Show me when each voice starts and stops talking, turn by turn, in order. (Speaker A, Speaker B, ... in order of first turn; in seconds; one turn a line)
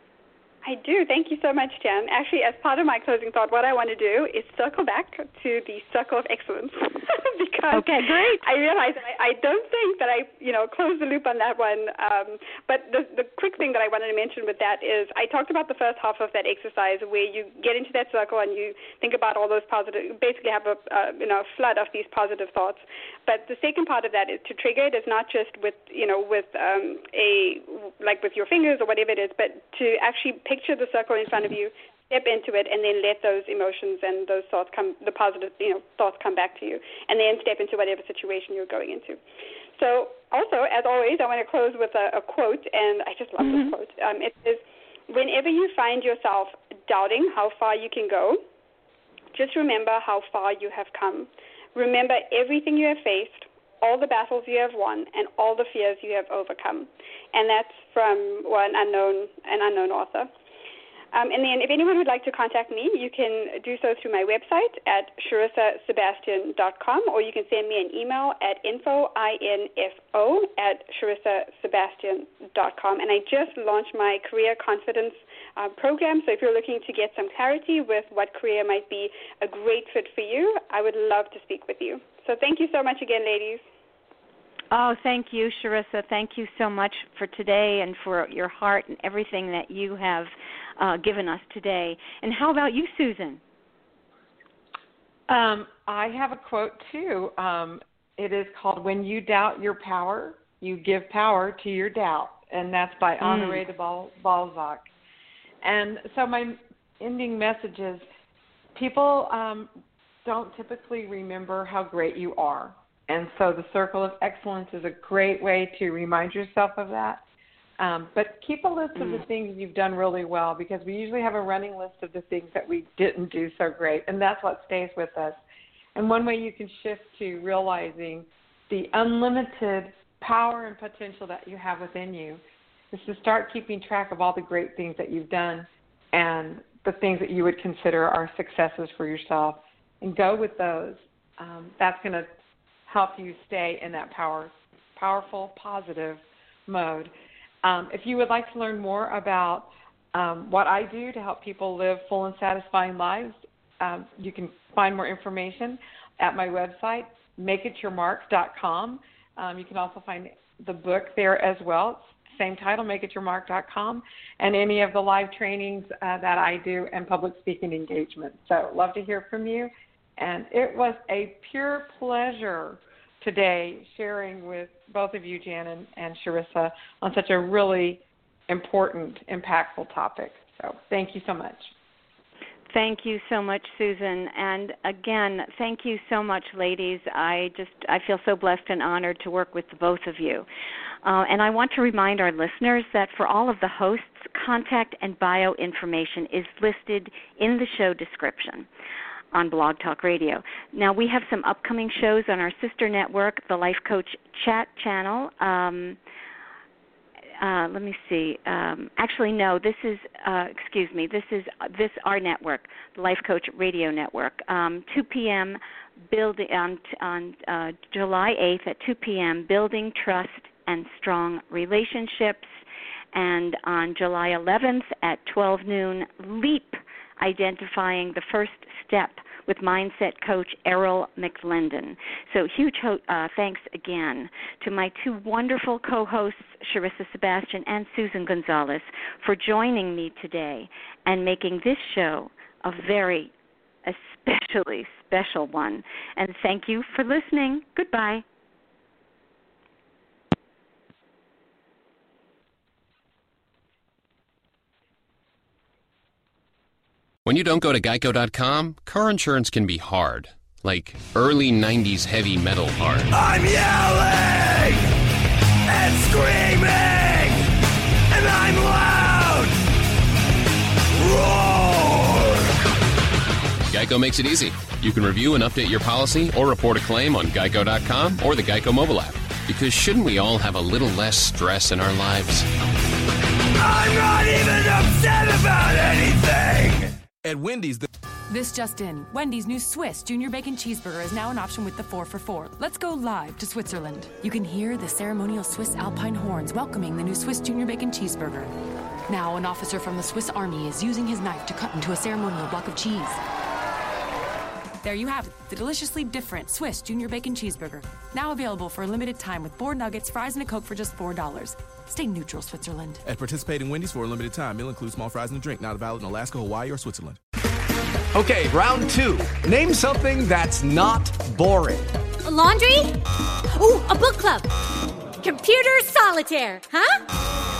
Speaker A: 0.6-39.2
Speaker B: 7.7-8.4
Speaker A: 39.8-48.4
Speaker B: 43.4-43.7
Speaker A: 49.3-60.3
Speaker A: 61.1-83.6
Speaker B: 84.7-93.4
Speaker C: 95.3-104.9
Speaker B: 103.2-103.6
Speaker C: 105.6-108.0
Speaker C: 108.7-109.7
Speaker C: 110.2-117.2
Speaker C: 117.8-125.4
Speaker B: 119.0-119.2
Speaker C: 125.9-132.4
Speaker C: 132.9-142.3
Speaker C: 142.9-147.1
Speaker C: 147.6-181.7
Speaker B: 182.7-190.5
Speaker B: 191.0-198.7
Speaker B: 199.3-206.0
Speaker B: 207.4-215.6
Speaker B: 216.1-222.5
Speaker B: 223.1-243.3
Speaker B: 243.8-248.2
Speaker D: 257.2-263.1
Speaker E: 263.1-264.9
Speaker E: 265.7-267.5
Speaker E: 268.1-269.5
Speaker E: 271.0-272.4
Speaker D: 273.7-282.5
Speaker E: 283.6-286.9
Speaker F: 287.2-287.9
Speaker G: 288.3-298.5
Speaker G: 299.1-303.2
Speaker G: 304.8-313.0
Speaker F: 313.0-317.2
Speaker H: 318.1-321.9
Speaker I: 322.2-322.9
Speaker I: 323.5-324.5
Speaker I: 325.2-327.0